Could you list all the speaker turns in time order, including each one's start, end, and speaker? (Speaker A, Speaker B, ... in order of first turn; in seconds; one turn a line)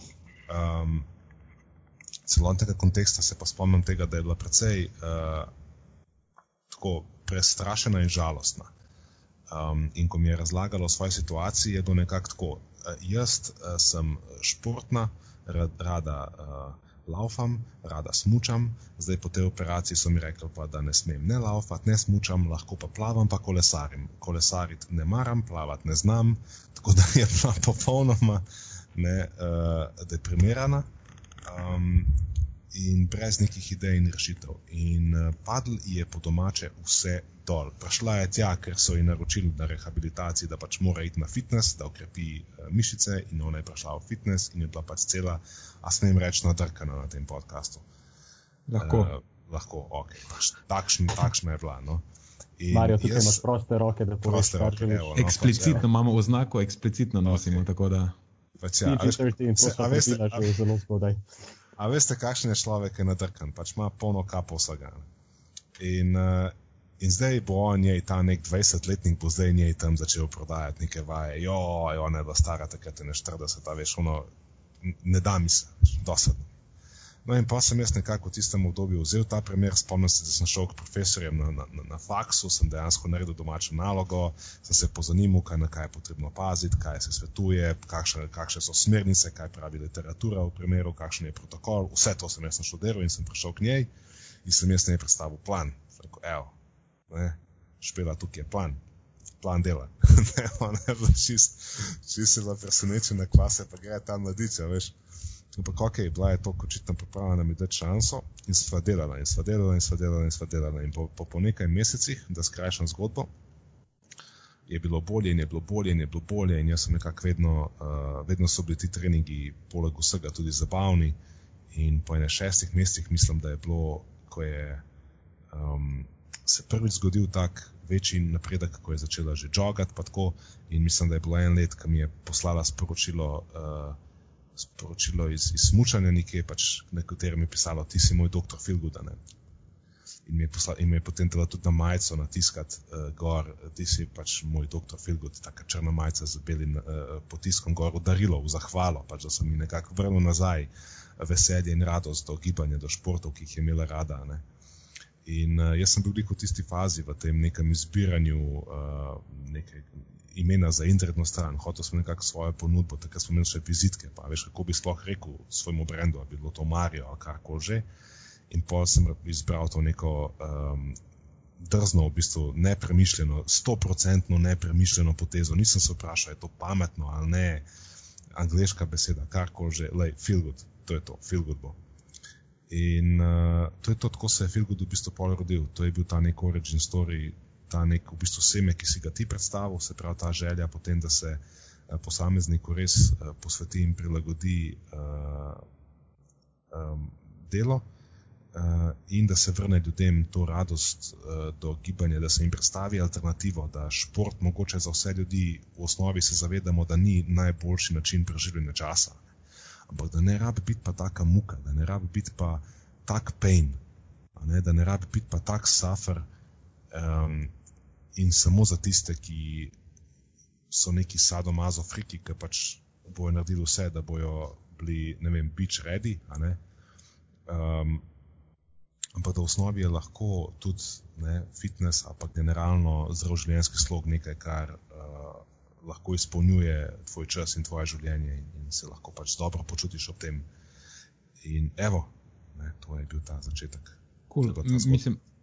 Speaker A: 0.5-1.1
Speaker A: 2.2-5.5
Speaker A: 6.7-8.7
Speaker A: 9.5-28.4
Speaker A: 28.9-30.9
Speaker A: 31.4-47.8
Speaker B: 48.7-49.1
Speaker A: 48.8-52.0
Speaker A: 52.6-53.4
Speaker C: 52.7-55.1
Speaker A: 54.2-55.8
Speaker B: 55.1-58.1
Speaker A: 57.3-57.6
Speaker A: 58.6-60.5
Speaker C: 58.8-61.2
Speaker A: 61.8-65.0
Speaker A: 65.8-74.3
Speaker A: 74.8-76.5
Speaker A: 77.2-93.9
Speaker A: 94.4-96.5
Speaker A: 97.1-98.8
Speaker A: 99.4-104.9
Speaker A: 105.5-113.3
Speaker A: 114.7-121.2
Speaker A: 121.7-124.8
Speaker A: 125.5-134.0
Speaker A: 134.6-139.2
Speaker A: 140.2-154.4
Speaker A: 155.2-167.8
Speaker A: 168.5-171.0
Speaker A: 171.6-177.6
Speaker A: 178.3-181.8
Speaker A: 182.7-195.6
Speaker A: 196.7-197.8
Speaker A: 198.5-209.2
Speaker A: 209.9-213.8
Speaker A: 214.3-216.2
Speaker A: 216.9-217.5
Speaker A: 218.1-219.7
Speaker A: 220.7-226.6
Speaker A: 227.5-228.0
Speaker A: 229.1-240.4
Speaker A: 241.4-245.0
Speaker B: 244.3-245.2